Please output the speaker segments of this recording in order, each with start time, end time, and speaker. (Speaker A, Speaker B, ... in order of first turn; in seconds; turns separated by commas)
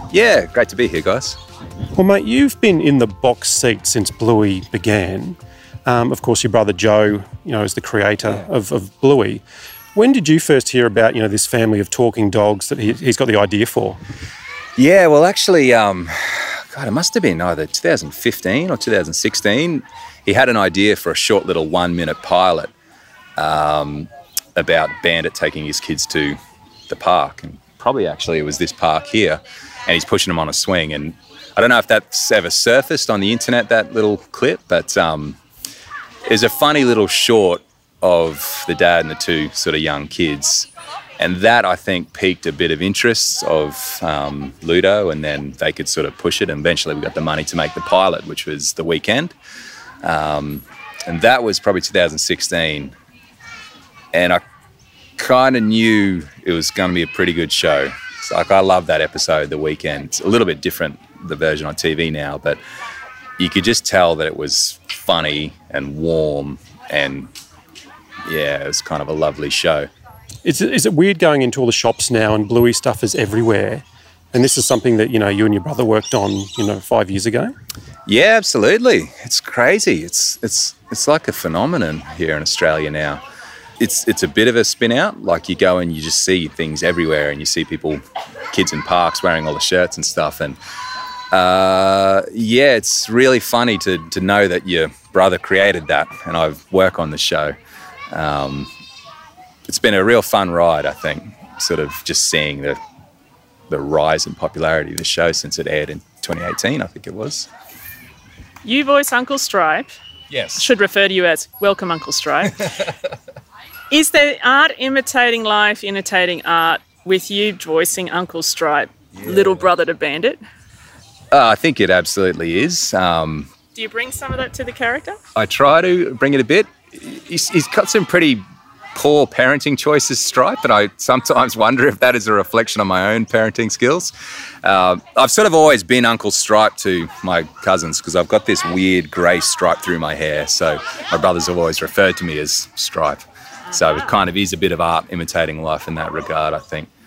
Speaker A: 0.1-1.4, Speaker B: 1.9-9.4, Speaker B: 9.9-14.0, Speaker A: 14.8-22.7, Speaker A: 23.4-26.4, Speaker A: 26.9-35.4, Speaker A: 36.3-49.4, Speaker A: 50.0-53.0, Speaker A: 54.1-54.4, Speaker A: 55.2-62.6, Speaker A: 63.4-67.3, Speaker A: 68.3-69.9, Speaker B: 70.4-77.5, Speaker A: 78.1-83.2, Speaker A: 83.8-90.6, Speaker A: 91.3-97.6, Speaker A: 98.1-98.7, Speaker A: 99.7-102.8, Speaker A: 103.7-107.5, Speaker C: 108.6-109.9, Speaker A: 110.3-110.7, Speaker C: 110.6-112.7, Speaker C: 113.9-120.4, Speaker A: 119.2-119.7, Speaker A: 121.3-123.5, Speaker C: 123.7-125.2, Speaker A: 125.3-128.4, Speaker A: 128.9-134.1, Speaker A: 134.6-146.9